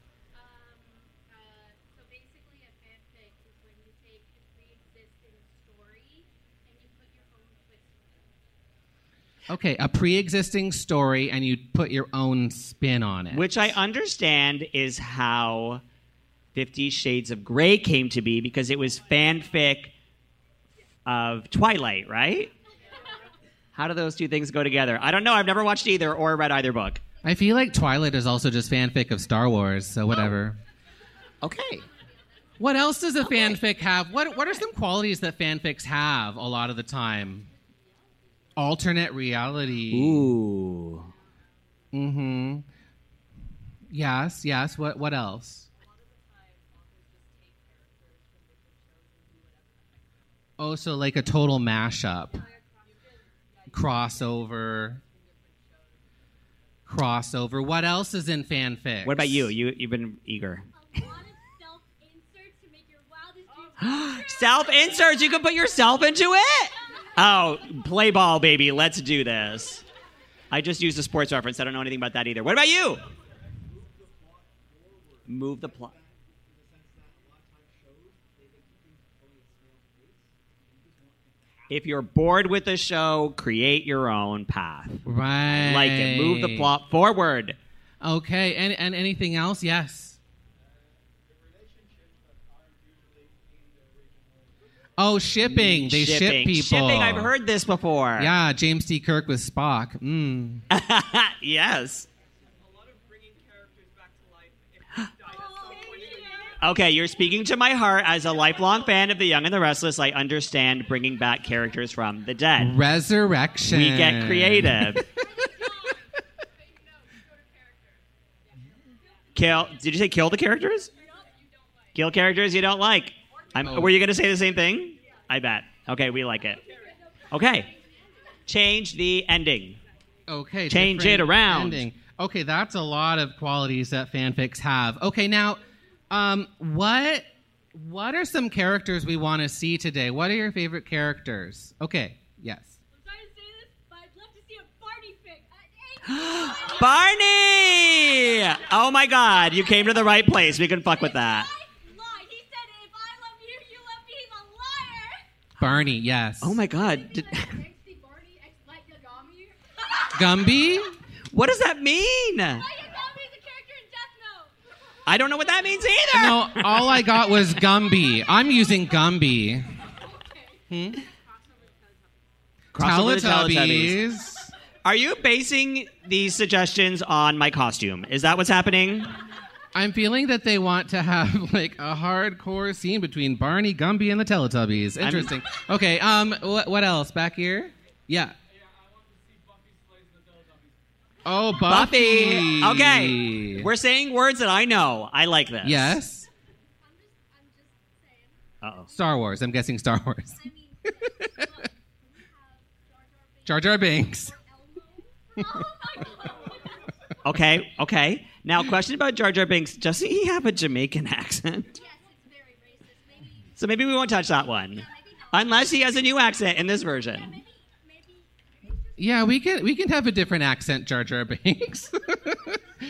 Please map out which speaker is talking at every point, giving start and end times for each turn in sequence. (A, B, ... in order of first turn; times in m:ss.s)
0:00.3-0:08.4 A
0:09.5-0:13.7 B
0:13.3-0:15.8 C
0:16.5-0:19.9 C
0:21.0-0:22.5 C
0:22.9-0:23.2 A
0:23.7-0:27.0 C
0:27.2-0:30.6 B
0:31.4-0:31.9 C
0:32.6-0:37.5 B
0:33.2-0:33.6 C
0:38.6-0:40.3 B
0:39.9-0:41.1 C
0:41.9-0:42.6 B
0:43.9-0:45.7 B
0:45.8-0:49.8 A
0:50.6-0:52.4 B
0:52.3-0:53.1 A
0:53.6-0:54.0 A
0:53.7-0:55.0 B
0:54.9-0:56.0 A
0:56.9-0:59.5 B
0:59.0-1:00.6 C
1:00.7-1:05.3 A
1:03.8-1:09.8 C
1:10.5-1:13.0 C
1:15.3-1:15.9 C
1:21.7-1:27.6 C
1:25.0-1:26.7 B
1:28.0-1:30.2 B
1:35.0-1:37.3 B
1:35.4-1:38.3 C
1:38.2-1:40.6 B
1:40.7-1:42.1 C
1:45.2-1:46.6 A
1:46.6-1:52.8 C
1:52.6-1:55.0 B
1:53.7-1:55.0 C
1:55.1-1:58.0 A
1:59.1-1:59.8 A
1:59.3-2:00.9 C
2:01.0-2:02.0 A
2:01.9-2:06.6 C
2:03.6-2:03.9 B
2:06.7-2:08.4 A
2:07.3-2:07.7 C
2:08.5-2:09.8 C
2:10.3-2:22.8 B
2:10.7-2:11.8 C
2:22.9-2:28.6 A
2:26.1-2:31.5 C
2:29.6-2:30.2 A
2:30.7-2:35.2 A
2:35.6-2:36.6 B
2:36.4-2:37.6 C
2:36.7-2:40.3 A
2:40.1-2:40.9 B
2:41.3-2:42.6 C
2:42.6-2:44.5 A
2:45.1-2:47.2 C
2:46.1-2:49.6 B
2:50.1-2:52.1 A
2:50.7-2:51.0 B
2:52.7-2:54.5 B
2:52.8-2:54.0 C
2:54.8-2:59.1 C
2:59.7-3:08.3 B
3:05.0-3:05.3 C
3:11.2-3:13.7 B
3:11.7-3:16.0 C
3:15.6-3:16.3 B
3:16.8-3:18.4 A
3:18.6-3:18.9 C
3:18.9-3:20.5 B
3:20.4-3:26.8 A
3:21.0-3:21.5 B
3:23.4-3:24.3 B
3:27.2-3:31.8 C
3:31.7-3:33.5 A
3:33.6-3:37.4 C
3:34.7-3:36.2 A
3:36.9-3:39.1 A
3:39.0-3:42.6 B